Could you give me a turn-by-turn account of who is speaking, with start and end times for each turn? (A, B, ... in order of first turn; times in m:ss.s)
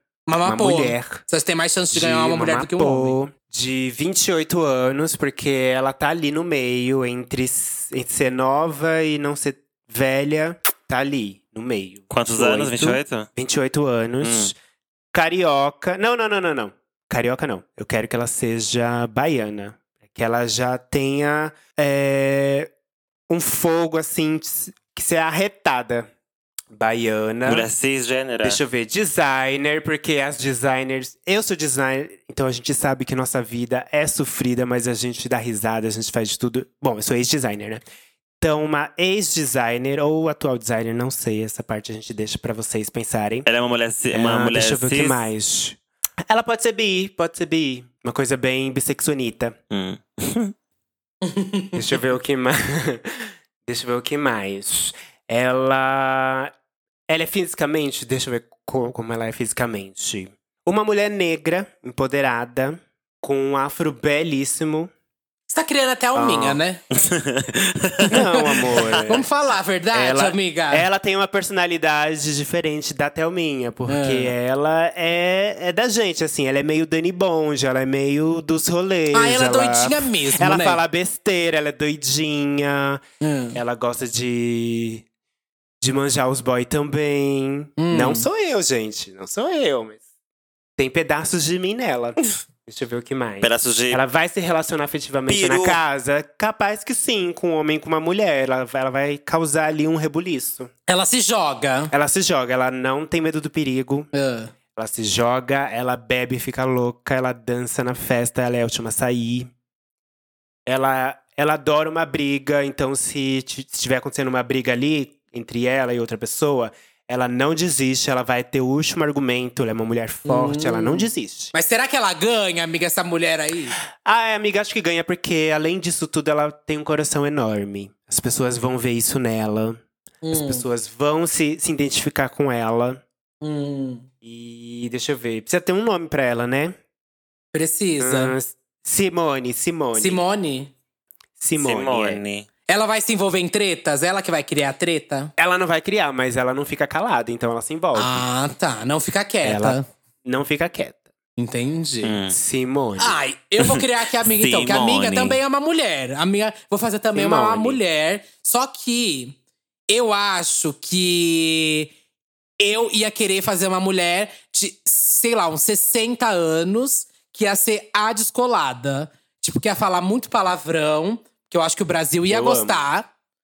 0:00.3-0:03.2 A
0:00.4-0:01.2 B
0:01.9-0:14.6 B
0:12.1-0:13.3 C
0:14.2-0:14.5 C
0:15.1-0:22.7 B
0:23.3-0:26.1 B
0:26.7-0:27.7 B
0:27.4-0:28.6 C
0:28.4-0:37.8 B
0:38.4-0:43.5 B
0:43.4-0:45.2 C
0:44.1-0:49.6 B
0:49.7-0:50.5 C
0:51.3-0:51.7 A
0:51.7-0:56.5 B
0:57.1-1:04.9 B
1:05.5-1:06.8 A
1:06.1-1:06.6 B
1:07.0-1:09.1 C
1:08.1-1:09.3 B
1:09.0-1:10.9 A
1:09.9-1:23.0 B
1:13.9-1:14.3 A
1:19.1-1:20.8 A
1:23.2-1:23.6 A
1:23.5-1:25.0 B
1:25.8-1:30.0 B
1:27.8-1:28.3 A
1:30.8-1:40.7 B
1:33.4-1:34.0 C
1:35.3-1:35.8 C
1:40.9-1:41.9 A
1:41.9-1:44.1 B
1:44.1-1:44.5 A
1:44.8-1:49.5 B
1:50.6-2:01.5 B
2:00.2-2:03.8 A
2:03.9-2:09.8 B
2:10.2-2:10.6 A
2:10.3-2:13.0 B
2:13.4-2:14.1 A
2:14.2-2:16.8 B
2:17.5-2:18.4 A
2:18.0-2:20.2 B
2:19.9-2:20.7 A
2:21.4-2:22.2 B
2:21.6-2:22.5 C
2:22.7-2:25.3 A
2:25.4-2:28.3 B
2:27.9-2:29.9 A
2:29.4-2:31.0 B
2:31.4-2:32.2 A
2:32.0-2:32.4 C
2:32.3-2:33.2 B
2:33.0-2:39.4 A
2:33.6-2:35.4 C
2:37.1-2:37.8 B
2:39.9-2:41.9 A
2:42.6-2:53.1 A
2:52.3-2:52.8 B